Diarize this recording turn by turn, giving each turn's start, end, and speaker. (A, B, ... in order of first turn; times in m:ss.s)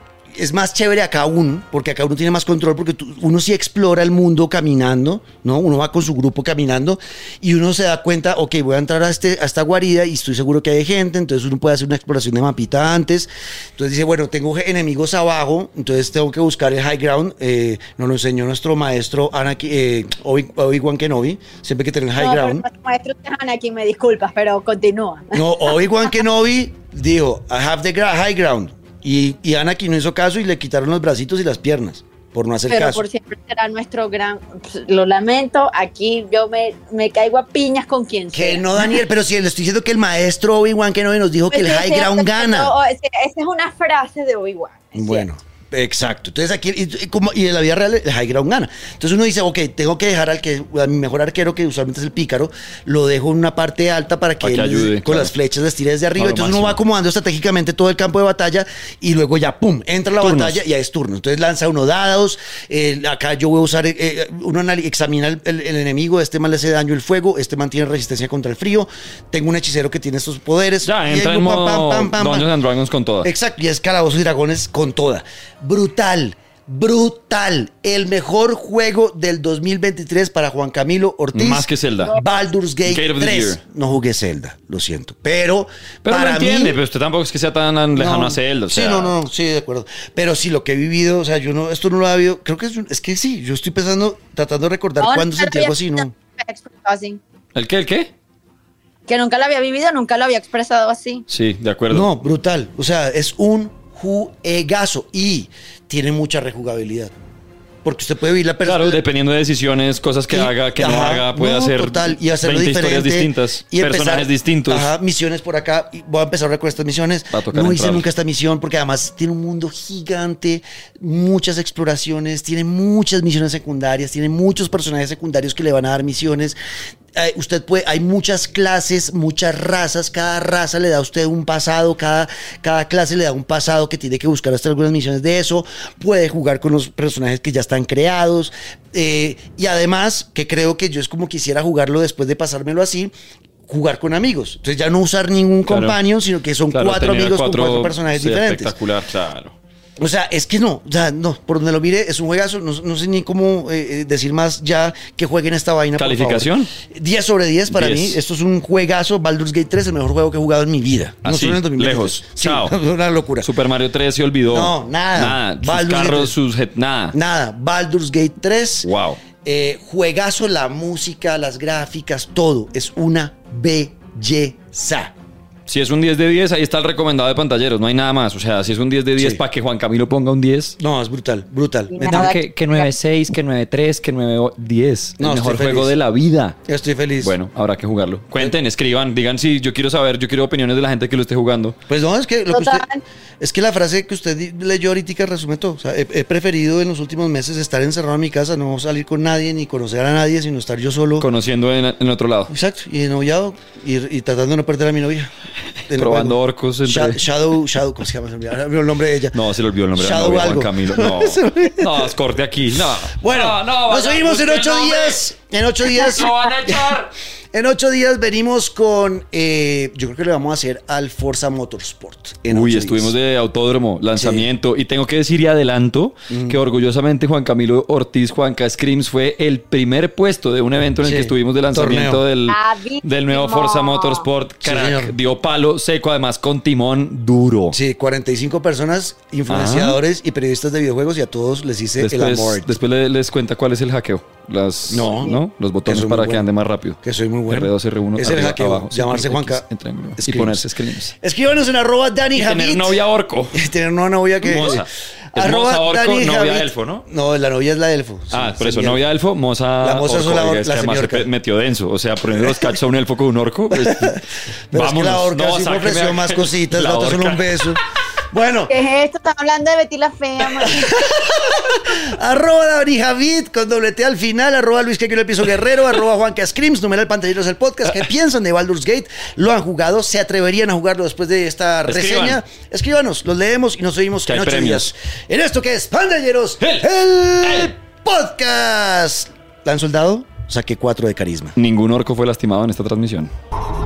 0:00.3-0:22.7 A
0:22.2-0:25.8 B
0:25.3-0:33.0 A
0:32.7-0:39.0 B
0:38.3-0:42.7 A
0:41.5-0:45.3 B
0:45.0-1:12.5 A
0:54.4-0:55.3 C
0:56.2-0:56.8 C
1:00.2-1:00.6 C
1:10.8-1:13.3 C
1:13.2-1:26.8 A
1:21.3-1:22.1 C
1:22.9-1:23.6 C
1:26.0-1:29.2 C
1:28.0-1:36.1 A
1:35.0-1:37.2 B
1:37.6-1:38.1 C
1:39.1-1:41.2 B
1:41.3-1:42.1 C
1:41.9-1:47.1 A
1:47.8-1:49.0 A
1:48.6-1:54.9 C
1:50.3-2:06.6 A
1:57.3-1:58.1 C
2:07.2-2:23.1 A
2:23.7-2:28.7 A
2:25.7-2:26.0 C
2:26.7-2:29.6 C
2:30.0-2:43.5 A
2:36.0-2:36.7 C
2:37.7-2:38.2 C
2:41.2-2:42.8 C
2:43.4-2:47.2 C
2:44.5-2:46.4 A
2:47.1-2:55.1 A
2:48.8-2:49.2 C
2:55.7-3:00.8 C
2:59.2-2:59.4 A
3:00.8-3:02.3 A
3:01.9-3:02.9 B
3:02.1-3:06.6 C
3:05.2-3:05.9 A
3:06.7-3:07.4 A
3:07.2-3:11.8 C
3:11.9-3:12.9 A
3:12.5-3:13.0 B
3:13.4-3:21.3 A
3:21.2-3:22.5 C
3:22.5-3:25.3 A
3:25.9-3:29.4 A
3:25.9-3:27.2 C
3:29.3-3:35.2 C
3:30.0-3:32.1 A
3:33.1-3:36.8 A
3:35.9-3:37.1 C
3:37.5-3:43.1 A
3:42.5-3:57.8 C
3:44.2-3:44.5 A
3:46.3-3:46.6 A
3:51.0-3:52.2 A
3:52.5-3:54.3 B
3:54.6-3:55.2 A
3:57.7-4:02.8 A
3:59.5-4:00.0 C
4:02.0-4:07.0 C
4:04.9-4:06.5 A
4:07.0-4:09.7 A
4:07.5-4:11.1 C
4:10.2-4:13.0 A
4:12.4-4:13.6 C
4:13.5-4:19.0 A
4:14.4-4:17.0 C
4:18.3-4:27.5 C
4:19.8-4:21.3 A
4:22.4-4:22.8 A
4:23.7-4:27.8 A
4:28.3-4:28.7 A
4:28.7-4:31.0 B
4:30.6-4:51.6 A
4:41.9-4:42.4 C
4:44.2-4:44.9 C
4:46.6-4:46.9 C
4:47.4-4:47.7 C
4:51.6-4:53.3 C